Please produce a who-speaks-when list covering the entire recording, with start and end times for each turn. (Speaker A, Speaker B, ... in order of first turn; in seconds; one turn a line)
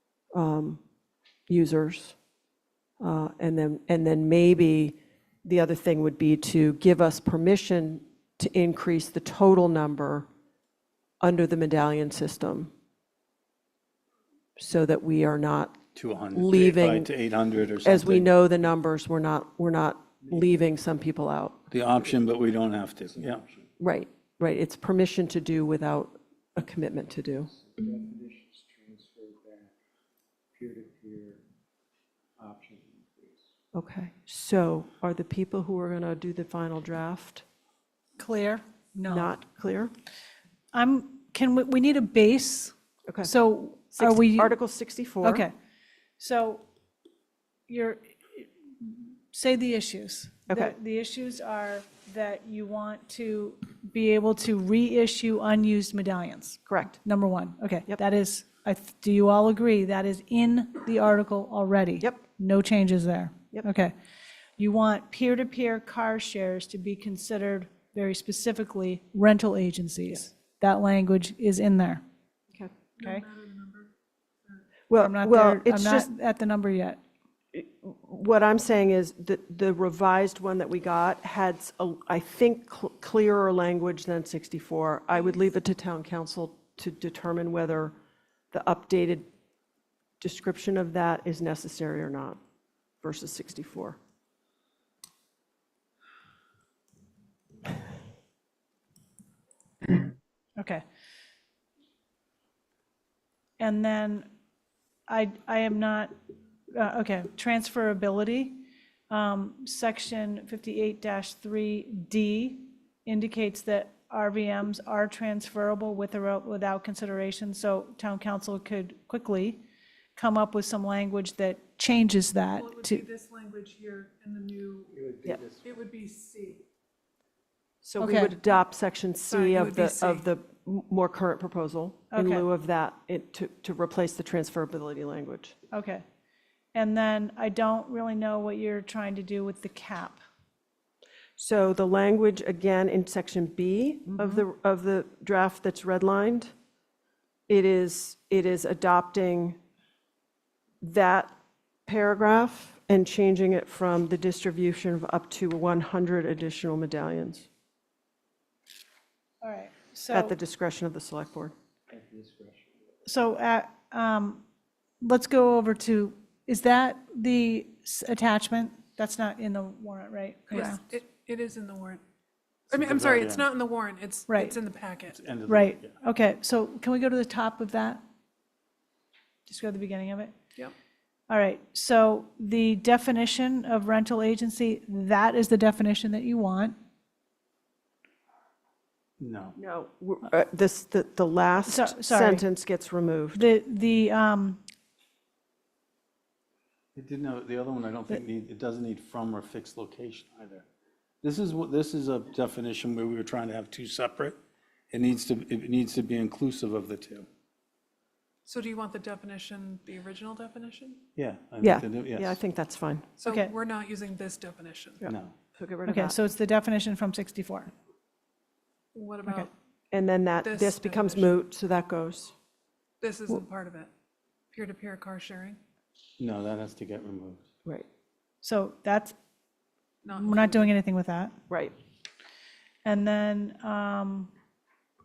Speaker A: 0.3-0.8
Speaker A: 1.5-2.2
Speaker A: 3.0-10.3
Speaker A: 11.2-12.7
Speaker A: 14.6-17.1
Speaker B: 15.9-18.3
Speaker A: 17.8-21.6
Speaker B: 21.7-23.5
Speaker A: 23.8-27.5
Speaker C: 27.5-29.7
Speaker C: 30.5-31.4
Speaker C: 32.4-33.5
Speaker A: 33.7-37.5
Speaker D: 38.2-39.3
Speaker A: 39.1-39.9
Speaker D: 40.7-44.6
Speaker A: 43.9-45.5
Speaker D: 45.2-45.5
Speaker D: 46.2-46.6
Speaker D: 47.7-63.9
Speaker A: 50.5-50.8
Speaker A: 56.7-57.0
Speaker D: 64.6-72.0
Speaker E: 73.0-73.9
Speaker A: 74.9-76.1
Speaker D: 75.0-77.0
Speaker A: 77.5-88.0
Speaker A: 88.5-89.3
Speaker A: 90.2-92.4
Speaker A: 93.0-94.0
Speaker D: 100.6-100.8
Speaker D: 103.6-104.3
Speaker D: 105.1-106.1
Speaker D: 106.7-119.6
Speaker D: 120.2-123.0
Speaker E: 122.6-124.9
Speaker C: 124.9-125.8
Speaker E: 125.6-126.6
Speaker A: 127.8-135.6
Speaker D: 128.0-128.4
Speaker E: 129.3-130.2
Speaker D: 132.1-132.5
Speaker D: 135.7-136.1
Speaker D: 136.7-140.2
Speaker A: 141.4-146.5
Speaker A: 147.5-149.6
Speaker A: 150.8-151.3
Speaker A: 151.9-157.5
Speaker D: 159.4-160.4
Speaker A: 160.1-161.5
Speaker C: 161.9-163.0
Speaker D: 163.1-164.4
Speaker D: 165.0-170.8
Speaker E: 170.5-172.0
Speaker E: 172.7-175.2
Speaker B: 172.7-173.4
Speaker D: 174.3-174.6
Speaker B: 175.1-175.9
Speaker D: 175.5-178.0
Speaker D: 179.5-180.3
Speaker D: 181.3-186.8
Speaker B: 189.2-189.6
Speaker A: 189.6-193.4
Speaker D: 191.7-192.4
Speaker D: 193.3-194.6
Speaker B: 197.0-200.7
Speaker B: 201.2-204.4
Speaker B: 204.9-207.3
Speaker E: 208.5-211.0
Speaker B: 211.2-212.4
Speaker A: 211.6-213.1
Speaker E: 213.2-215.0
Speaker D: 213.2-213.5
Speaker A: 215.0-216.2
Speaker B: 215.1-215.3
Speaker D: 215.9-217.7
Speaker E: 218.9-219.5
Speaker A: 219.9-222.3
Speaker E: 220.4-221.4
Speaker E: 223.0-223.9
Speaker E: 224.5-225.6
Speaker B: 226.2-227.4
Speaker D: 228.4-229.2
Speaker E: 230.0-230.7
Speaker D: 230.2-231.3
Speaker A: 231.5-231.8
Speaker D: 232.8-234.3